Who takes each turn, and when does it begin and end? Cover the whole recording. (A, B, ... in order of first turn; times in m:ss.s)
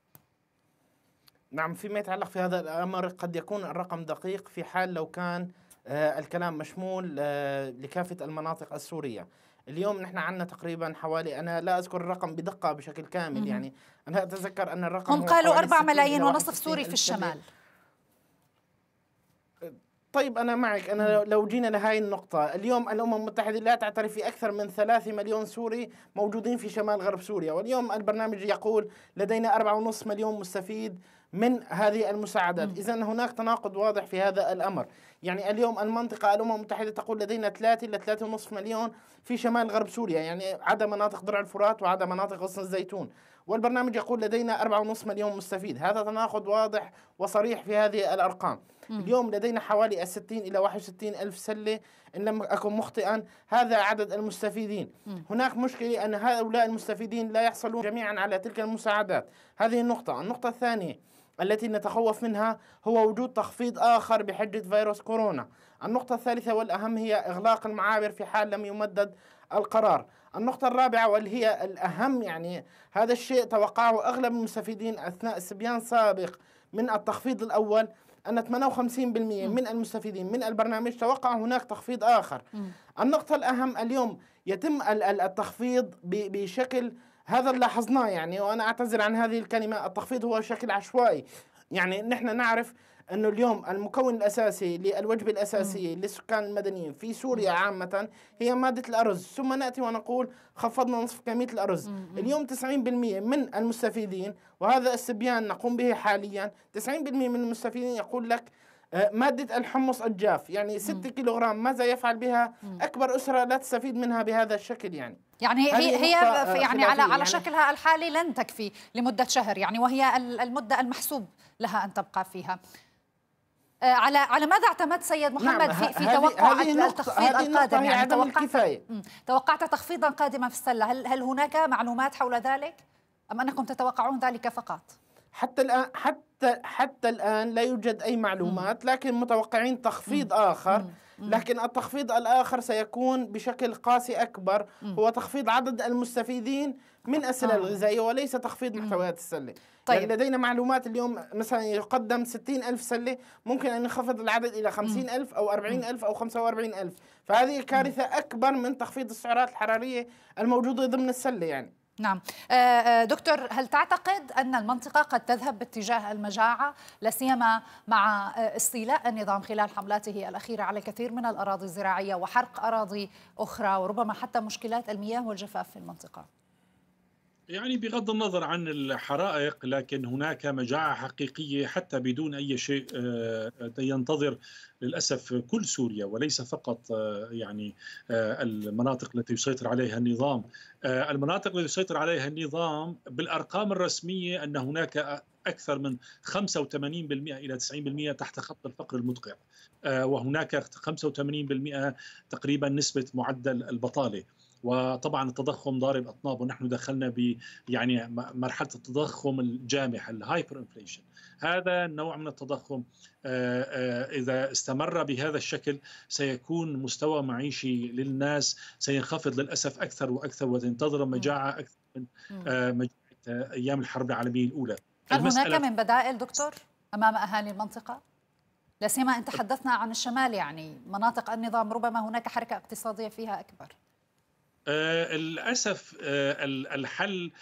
0:01.5-0:17.4 A
0:13.4-0:13.6 B
0:15.1-0:17.4 B
0:19.6-1:22.4 A
1:23.0-1:55.2 A
1:41.9-1:42.3 B
1:55.4-2:02.6 B
1:55.7-1:57.4 A
2:03.9-2:12.8 B
2:05.4-2:08.8 A
2:13.3-2:15.0 B
2:15.4-2:41.7 A
2:20.1-2:21.4 B
2:27.4-2:27.8 B
2:42.0-2:56.3 B
2:57.5-3:45.6 C
3:45.1-3:48.0 B
3:48.8-3:53.7 B
3:54.7-3:57.3 C